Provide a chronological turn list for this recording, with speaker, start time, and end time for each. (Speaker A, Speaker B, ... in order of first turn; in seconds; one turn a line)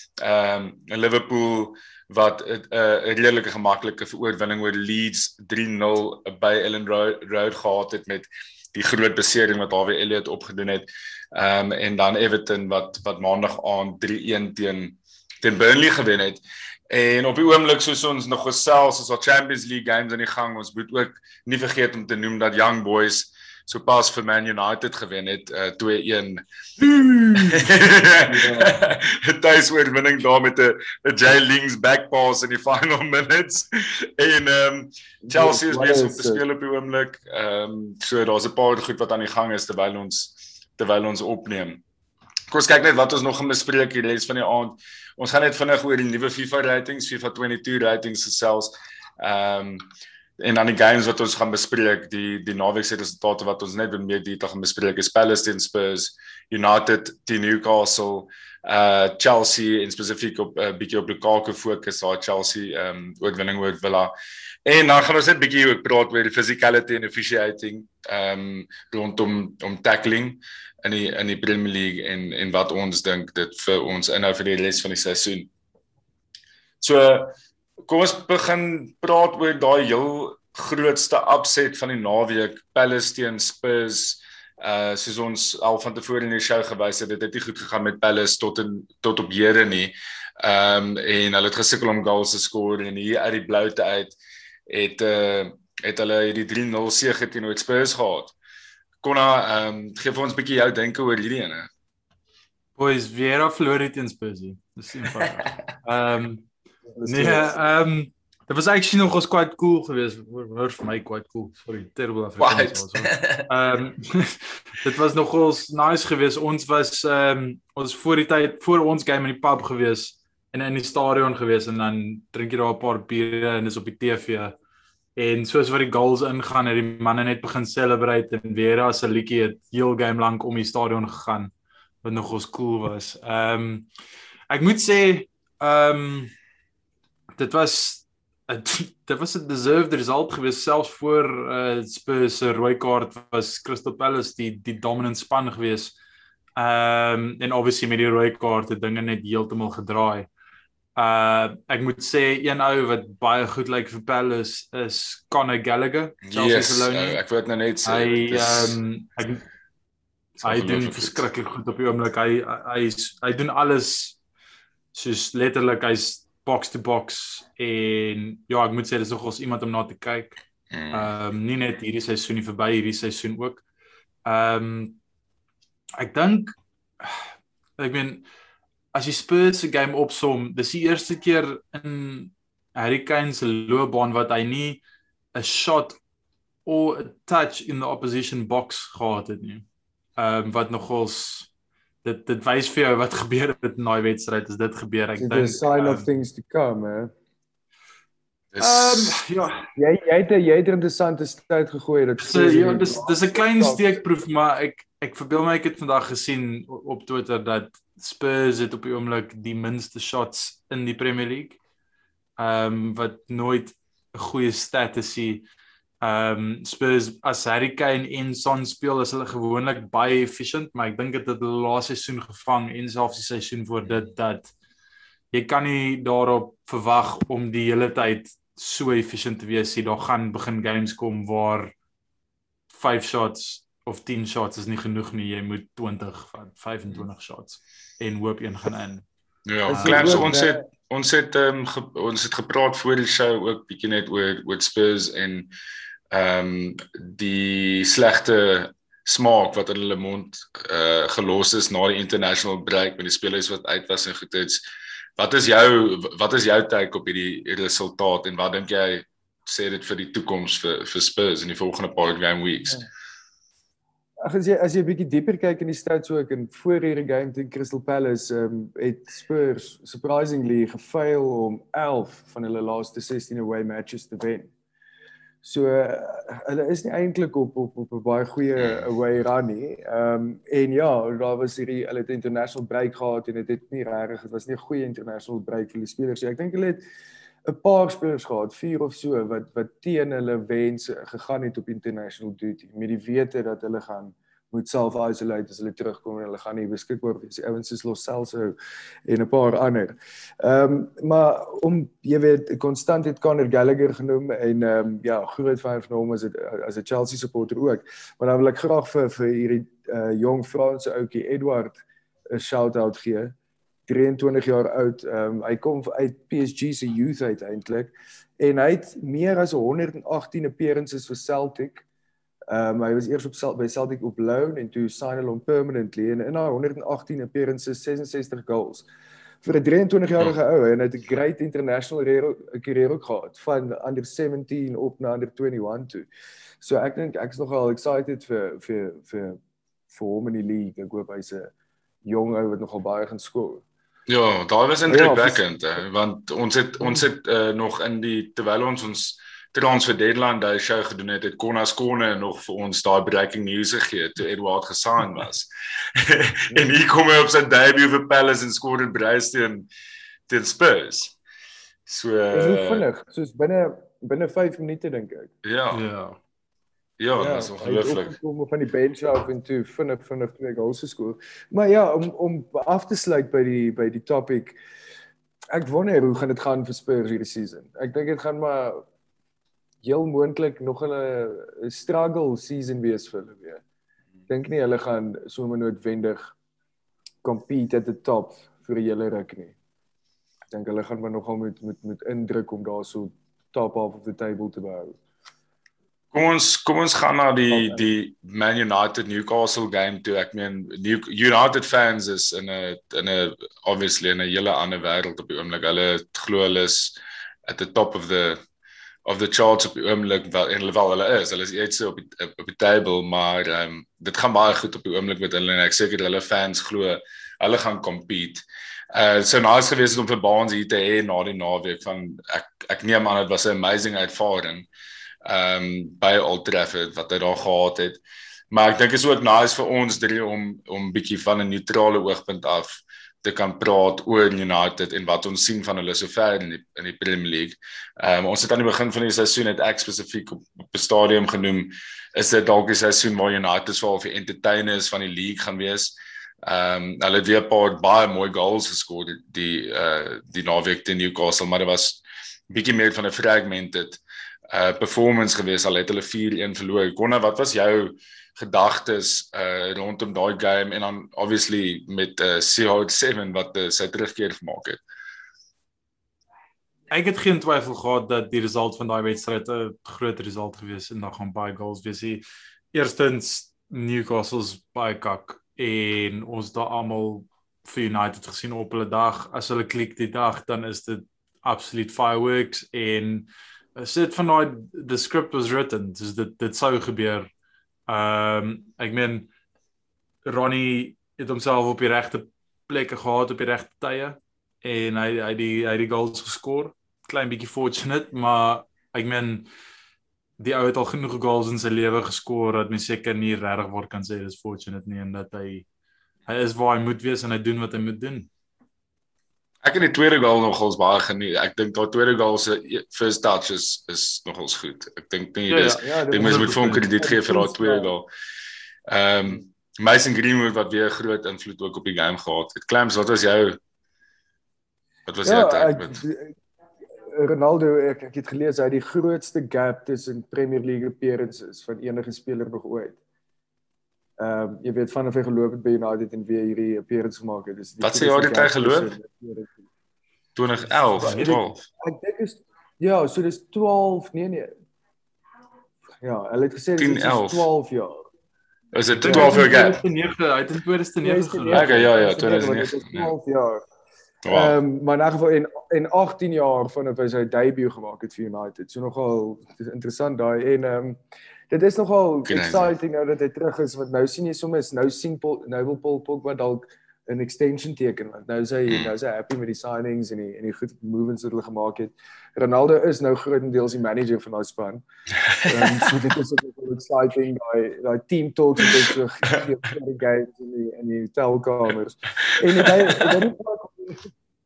Speaker A: 0.2-26.4
Speaker B: 27.0-27.7
Speaker A: 27.3-41.8
Speaker B: 28.3-28.8
Speaker B: 35.3-36.4
Speaker A: 42.5-49.9
Speaker A: 50.4-64.1
Speaker A: 64.7-75.5
Speaker A: 76.8-77.3
Speaker A: 77.9-94.2
Speaker A: 94.7-98.3
Speaker A: 99.0-101.7
Speaker C: 102.8-106.5
Speaker B: 106.9-107.6
Speaker C: 107.0-124.5
Speaker A: 112.4-113.5
Speaker C: 125.2-131.5
Speaker C: 132.0-133.9
Speaker C: 134.5-136.3
Speaker C: 137.4-145.9
Speaker C: 146.6-150.3
Speaker C: 151.0-157.2
Speaker A: 156.2-158.8
Speaker C: 157.9-159.4
Speaker A: 160.4-161.2
Speaker C: 160.4-164.2
Speaker C: 164.9-170.3
Speaker A: 170.7-171.1
Speaker C: 170.9-173.6
Speaker C: 174.2-175.0
Speaker C: 176.0-178.3
Speaker C: 178.9-184.8
Speaker C: 185.3-186.0
Speaker C: 186.7-191.5
Speaker C: 192.0-196.1
Speaker B: 195.2-197.1
Speaker A: 198.5-199.2
Speaker C: 198.6-199.6
Speaker B: 199.8-203.9
Speaker C: 202.2-211.6
Speaker C: 212.4-215.4
Speaker C: 216.0-224.5
Speaker C: 225.3-231.7
Speaker C: 232.7-239.1
Speaker A: 239.5-245.5
Speaker B: 239.7-240.6
Speaker C: 239.7-240.3
Speaker A: 246.1-254.6
Speaker A: 255.2-262.8
Speaker B: 264.2-274.5
Speaker B: 275.4-286.8
Speaker A: 278.6-278.8
Speaker B: 287.4-298.6
Speaker B: 299.1-311.8
Speaker B: 312.3-313.3
Speaker B: 313.9-321.8
Speaker B: 322.5-328.9
Speaker B: 329.4-336.1
Speaker B: 336.6-339.4
Speaker B: 339.9-341.5
Speaker B: 342.0-343.6
Speaker A: 344.1-359.7
Speaker B: 344.9-345.4
Speaker A: 360.3-361.2
Speaker A: 361.9-362.8
Speaker B: 362.3-365.3
Speaker A: 365.4-365.8
Speaker C: 365.7-366.2
Speaker A: 367.0-368.1
Speaker B: 367.2-374.6
Speaker B: 375.5-378.8
Speaker B: 379.8-383.6
Speaker B: 384.3-386.3
Speaker B: 387.2-389.6
Speaker B: 390.5-395.0
Speaker A: 396.1-408.4
Speaker B: 397.5-397.9
Speaker A: 409.1-424.7
Speaker A: 425.2-464.8
Speaker C: 466.9-487.3
Speaker C: 487.9-489.3
Speaker C: 490.2-499.5
Speaker C: 500.4-505.7
Speaker C: 506.3-508.3
Speaker A: 509.6-518.1
Speaker C: 515.5-516.8
Speaker B: 515.8-517.9
Speaker A: 518.9-523.6
Speaker A: 525.1-526.0
Speaker B: 525.2-526.4
Speaker B: 527.1-533.0
Speaker B: 534.2-539.6
Speaker A: 537.8-539.0
Speaker A: 540.4-541.6
Speaker C: 541.0-541.3
Speaker B: 541.0-544.5
Speaker B: 546.0-548.1
Speaker A: 546.8-547.5
Speaker A: 548.7-549.8
Speaker C: 549.0-551.9
Speaker B: 549.1-549.4
Speaker B: 551.0-553.6
Speaker A: 551.5-553.1
Speaker A: 554.2-554.6
Speaker B: 554.3-561.0
Speaker B: 561.5-574.8
Speaker A: 562.3-562.7
Speaker A: 575.3-575.9
Speaker B: 575.4-584.1
Speaker A: 582.6-583.1